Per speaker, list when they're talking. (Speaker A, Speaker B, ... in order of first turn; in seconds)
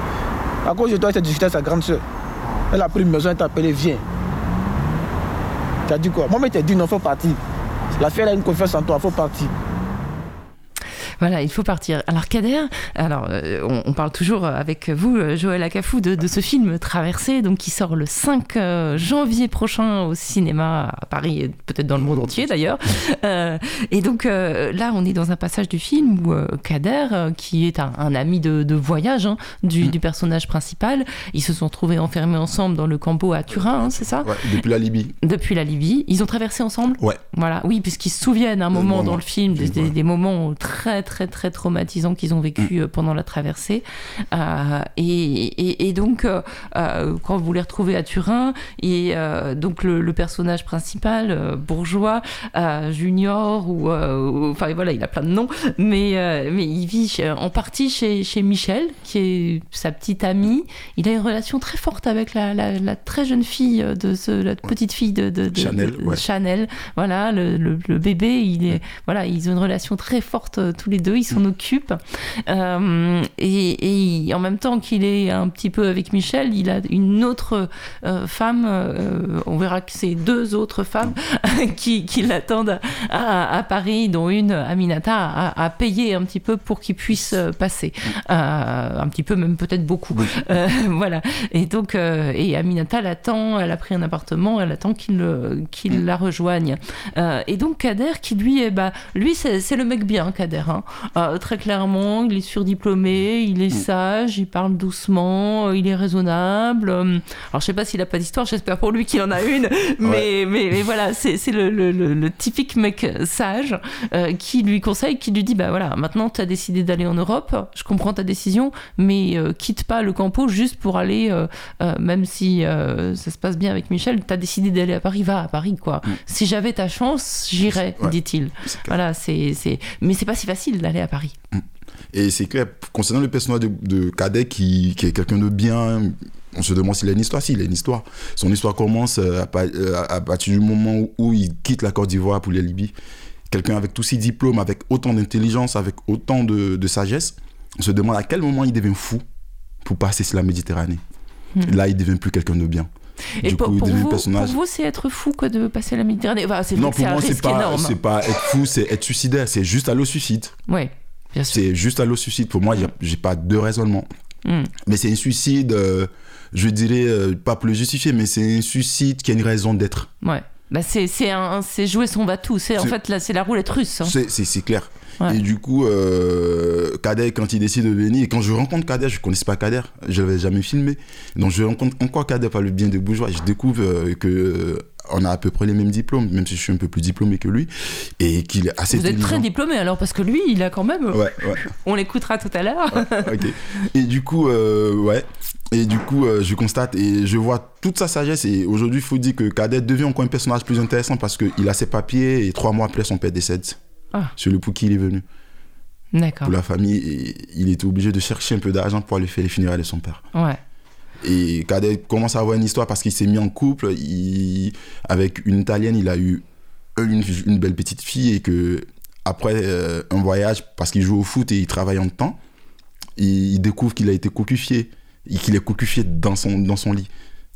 Speaker A: 0.6-2.0, 2.7-4.0, 5.9-7.4, 8.0-9.5
Speaker B: 11.2-34.4, 35.2-131.3, 153.4-158.0, 160.7-161.6, 164.4-164.7, 170.2-174.1, 188.9-193.4, 206.1-206.5, 210.3-210.6
Speaker C: 34.2-35.1, 38.7-39.9, 65.5-66.2, 127.7-128.9, 131.5-142.9, 143.5-149.2, 149.8-151.0, 151.6-152.9, 153.4-154.6, 156.7-160.6, 161.5-164.1, 164.8-170.1, 174.0-189.4, 191.1-191.6, 192.9-203.8, 204.4-205.2, 206.4-210.2, 211.2-216.4, 216.9-222.4, 223.2-227.1